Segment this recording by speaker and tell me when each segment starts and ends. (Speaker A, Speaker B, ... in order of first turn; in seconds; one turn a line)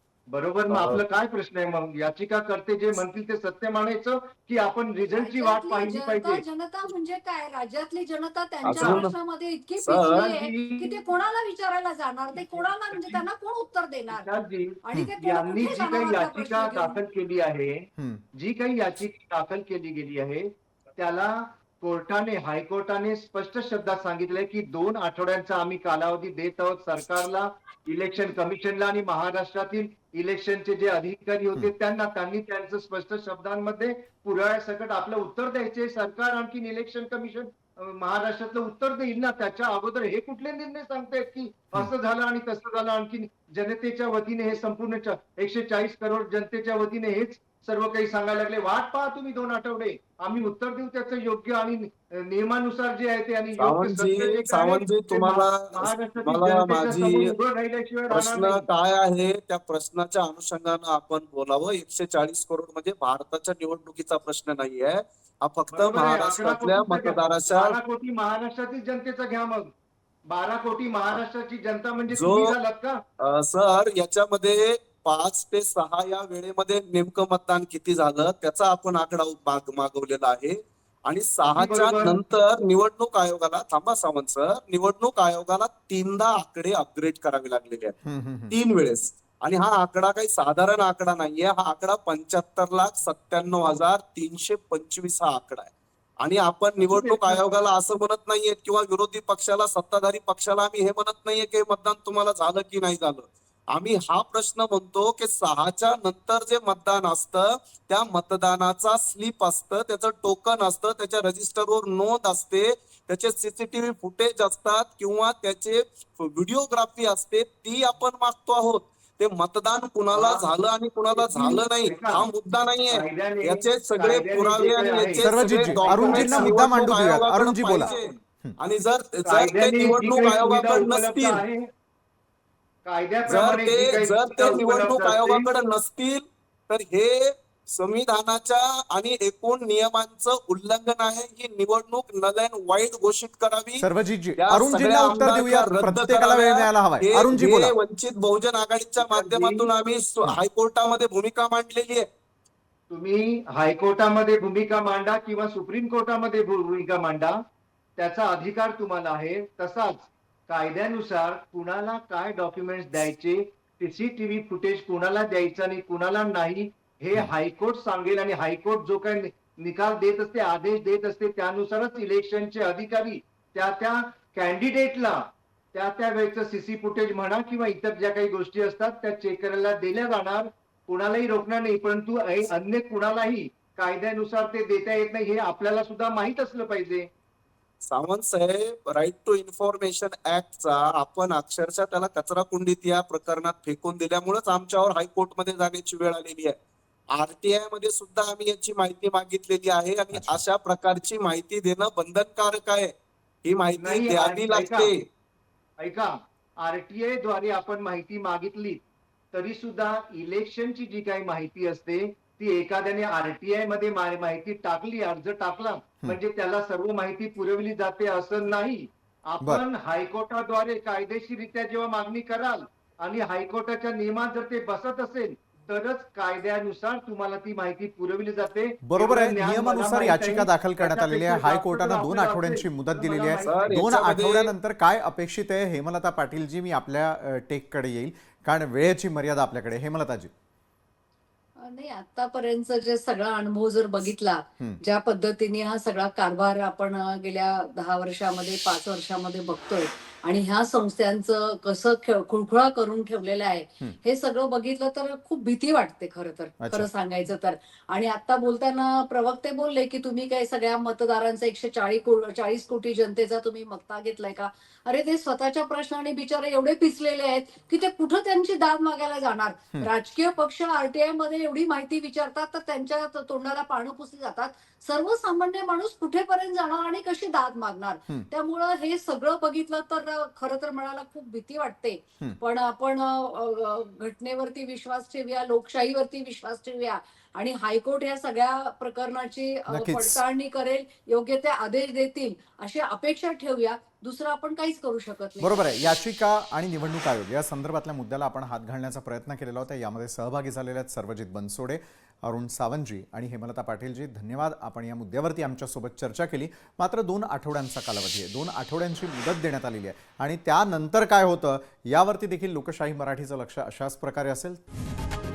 Speaker A: 0.3-6.4
Speaker B: 0.7-1.0
Speaker C: 5.1-14.3
Speaker A: 8.6-9.0
Speaker B: 8.6-9.1
Speaker B: 9.8-10.3
Speaker A: 10.1-11.0
Speaker A: 12.4-13.2
Speaker A: 14.1-58.6
Speaker C: 14.8-17.0
Speaker D: 18.0-18.2
Speaker B: 53.6-57.3
Speaker B: 58.1-67.8
Speaker A: 65.7-69.7
Speaker A: 70.3-73.0
Speaker B: 72.1-72.5
Speaker B: 73.2-88.0
Speaker A: 81.6-82.2
Speaker D: 88.0-88.5
Speaker B: 88.5-131.4
Speaker A: 96.8-97.5
Speaker A: 120.1-120.5
Speaker A: 121.1-122.3
Speaker A: 122.9-126.6
Speaker D: 125.2-127.9
Speaker A: 127.8-128.2
Speaker A: 129.2-131.7
Speaker A: 132.8-135.6
Speaker B: 133.3-143.8
Speaker D: 143.8-147.8
Speaker B: 144.4-152.1
Speaker A: 149.0-149.7
Speaker A: 152.9-157.4
Speaker A: 158.0-175.2
Speaker A: 175.7-187.1
Speaker B: 187.9-196.6
Speaker B: 197.1-202.9
Speaker D: 200.1-200.4
Speaker B: 203.4-205.0
Speaker A: 203.8-204.9
Speaker A: 205.8-208.8
Speaker A: 209.3-233.8
Speaker D: 228.8-240.3
Speaker B: 233.4-234.5
Speaker C: 241.6-296.0
Speaker D: 256.6-256.9
Speaker D: 289.7-290.2
Speaker D: 295.4-314.6